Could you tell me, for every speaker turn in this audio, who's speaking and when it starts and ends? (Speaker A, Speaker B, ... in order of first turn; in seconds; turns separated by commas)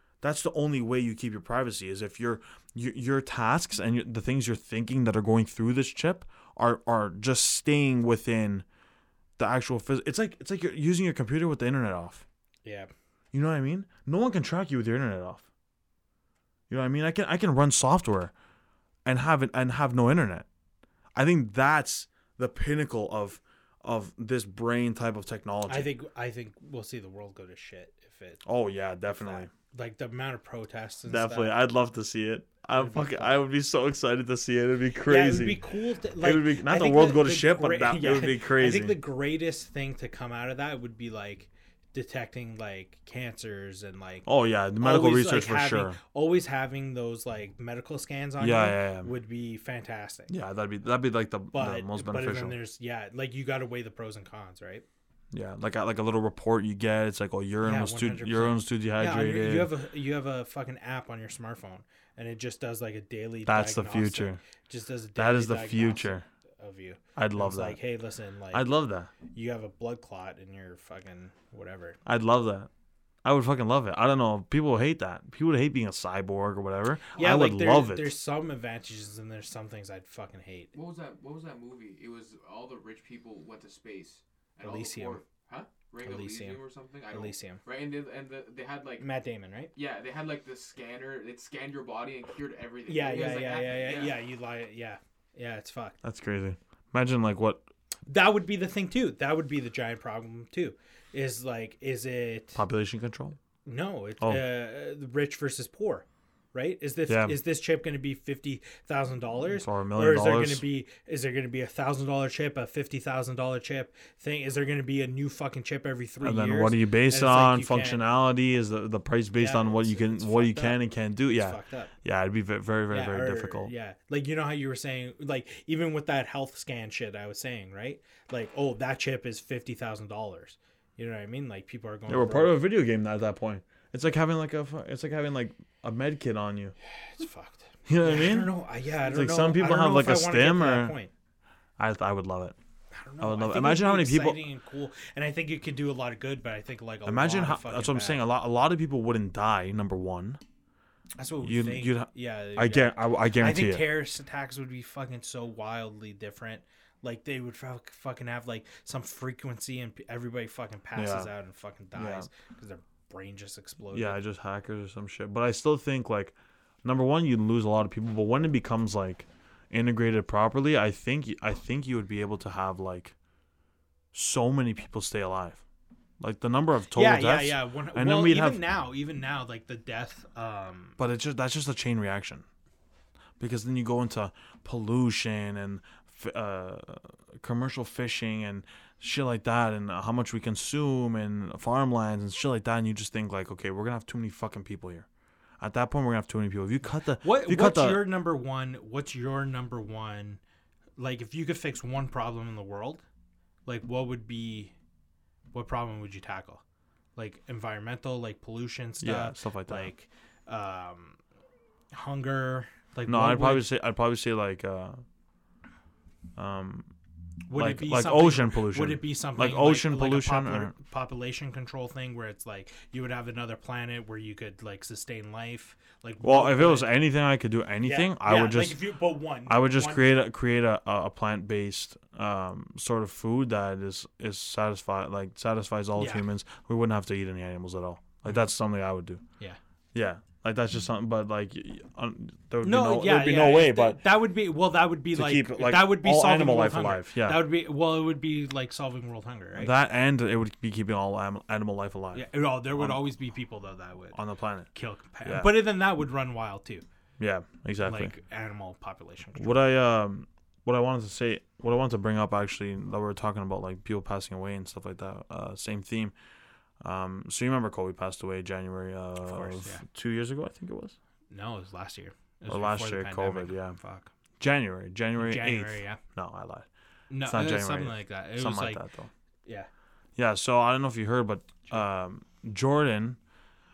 Speaker A: 0.2-8.6, Speaker A: 9.4-12.2, Speaker B: 12.6-12.9, Speaker A: 13.3-15.5, Speaker A: 16.7-18.3, Speaker A: 19.1-20.4, Speaker A: 21.2-25.9, Speaker B: 25.7-28.4, Speaker A: 28.4-29.5, Speaker B: 29.1-31.6, Speaker A: 31.1-35.6, Speaker B: 32.7-33.3, Speaker B: 35.0-44.3, Speaker A: 36.2-39.0, Speaker A: 44.2-46.0, Speaker B: 44.8-50.3, Speaker A: 48.4-49.1, Speaker A: 50.3-52.5, Speaker B: 51.5-54.8, Speaker A: 55.3-59.7, Speaker B: 57.6-68.7, Speaker A: 63.5-64.4, Speaker A: 65.2-66.3, Speaker A: 67.2-67.8, Speaker A: 68.5-69.1, Speaker B: 69.2-72.0, Speaker A: 72.0-72.7, Speaker A: 73.2-78.2, Speaker B: 77.2-80.7, Speaker C: 80.7-89.0, Speaker B: 84.6-85.2, Speaker B: 86.0-87.6, Speaker B: 89.0-89.7, Speaker C: 89.7-94.2, Speaker B: 92.9-96.0, Speaker A: 96.0-97.7, Speaker B: 98.0-102.6, Speaker A: 102.5-103.4, Speaker B: 103.6-118.0, Speaker A: 107.1-107.4, Speaker A: 109.5-110.6, Speaker A: 116.2-123.7, Speaker B: 119.4-121.9, Speaker B: 122.9-132.6, Speaker A: 132.1-136.7, Speaker B: 137.0-141.1, Speaker A: 137.9-138.5, Speaker A: 139.0-140.9, Speaker A: 141.8-142.6, Speaker B: 142.9-148.2, Speaker A: 143.2-144.4, Speaker A: 147.1-150.4, Speaker B: 151.2-164.2, Speaker A: 151.4-153.8, Speaker A: 160.9-161.3, Speaker A: 161.9-162.3, Speaker A: 163.9-173.1, Speaker A: 174.1-175.6, Speaker A: 176.2-178.6, Speaker B: 176.9-181.0, Speaker A: 181.0-182.4, Speaker A: 183.4-195.1, Speaker A: 195.6-198.1, Speaker B: 197.2-200.4, Speaker B: 201.0-203.0, Speaker B: 203.7-204.7, Speaker B: 205.5-206.6, Speaker B: 207.2-211.2, Speaker A: 209.0-209.9, Speaker B: 211.9-213.7, Speaker A: 213.1-215.0, Speaker A: 216.4-216.9, Speaker B: 217.5-226.9, Speaker A: 217.5-220.7, Speaker A: 226.2-228.8, Speaker B: 227.8-230.1, Speaker A: 229.4-239.2, Speaker B: 235.9-236.2, Speaker A: 239.9-244.0, Speaker B: 242.6-249.8, Speaker A: 245.1-247.4, Speaker A: 249.6-253.0, Speaker B: 252.1-254.2, Speaker A: 254.1-254.7, Speaker B: 254.7-256.8, Speaker A: 255.2-255.6, Speaker A: 257.2-258.1, Speaker B: 257.8-259.6, Speaker A: 259.4-266.1, Speaker A: 266.8-270.9, Speaker B: 269.2-269.8, Speaker B: 271.3-274.1, Speaker A: 272.5-273.8, Speaker A: 274.4-276.7, Speaker B: 275.2-276.0, Speaker B: 277.1-278.8, Speaker A: 277.2-279.1, Speaker A: 280.2-283.2